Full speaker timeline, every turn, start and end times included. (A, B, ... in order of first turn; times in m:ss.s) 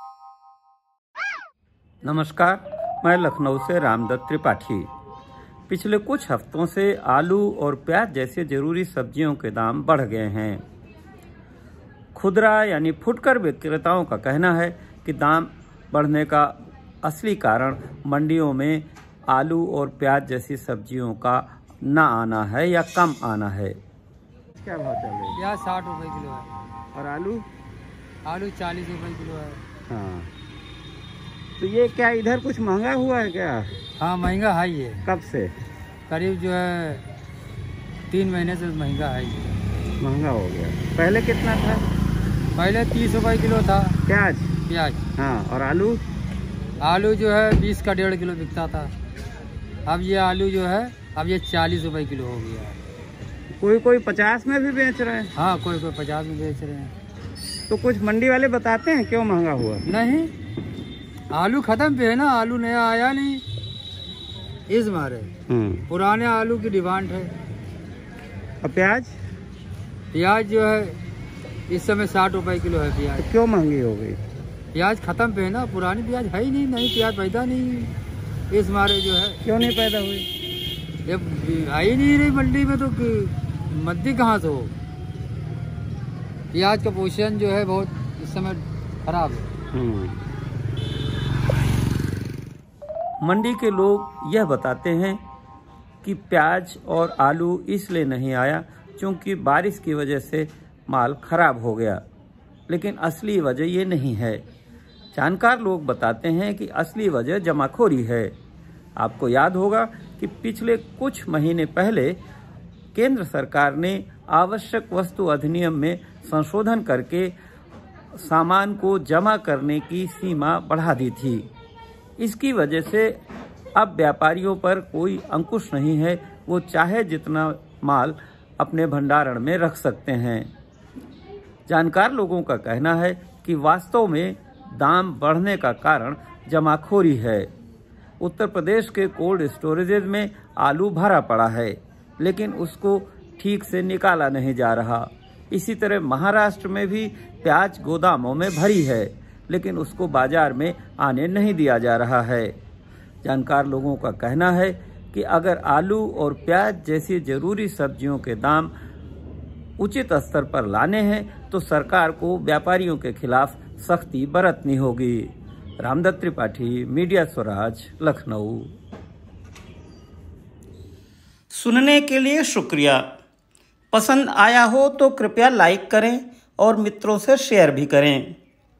0:02.0-0:04.9 A
0:05.7-0:10.6 A
0:12.1-0:23.8 A
0:24.6-0:25.4 A
0:25.3-0:26.5 B
0:26.9-0:27.5 A
0:28.2-0:29.6 B
0:29.9-0:30.3 A
0:31.6-0:33.7 A
0:34.0-0:35.0 B
0:35.0-0:35.6 A
0:36.1-0:37.0 B
0:38.1-0:39.6 B
0:40.0-0:41.8 A
0:42.6-0:44.0 B
0:44.0-0:44.5 A
0:44.7-0:45.0 B
0:45.2-0:46.0 A
0:46.8-0:48.9 B
0:49.9-0:52.8 B
0:53.6-0:55.3 A
0:55.3-0:56.9 B
0:57.7-0:59.9 A
0:59.9-1:00.3 B
1:01.3-1:03.4 B
1:04.7-1:05.3 B
1:05.5-1:05.9 A
1:05.9-1:07.3 B
1:08.6-1:09.1 A
1:10.1-1:11.0 B
1:11.7-1:13.3 B
1:13.2-1:14.2 A
1:14.7-1:17.9 B
1:18.5-1:19.4 B
1:19.4-1:20.3 A
1:21.0-1:24.7 B
1:26.5-1:29.6 B
1:29.7-1:30.2 A
1:33.2-1:35.2 A
1:36.0-1:42.0 A
1:42.7-1:44.4 A
1:45.1-1:48.4 A
1:49.0-1:52.2 A
1:52.9-1:57.3 A
1:58.2-2:01.5 A
2:02.2-2:03.2 A
2:03.8-2:10.5 A
2:11.7-2:17.5 A
2:18.2-2:32.6 A
2:33.2-2:38.7 A
2:39.8-2:48.8 A
2:51.5-2:53.0 A
2:53.9-2:58.4 A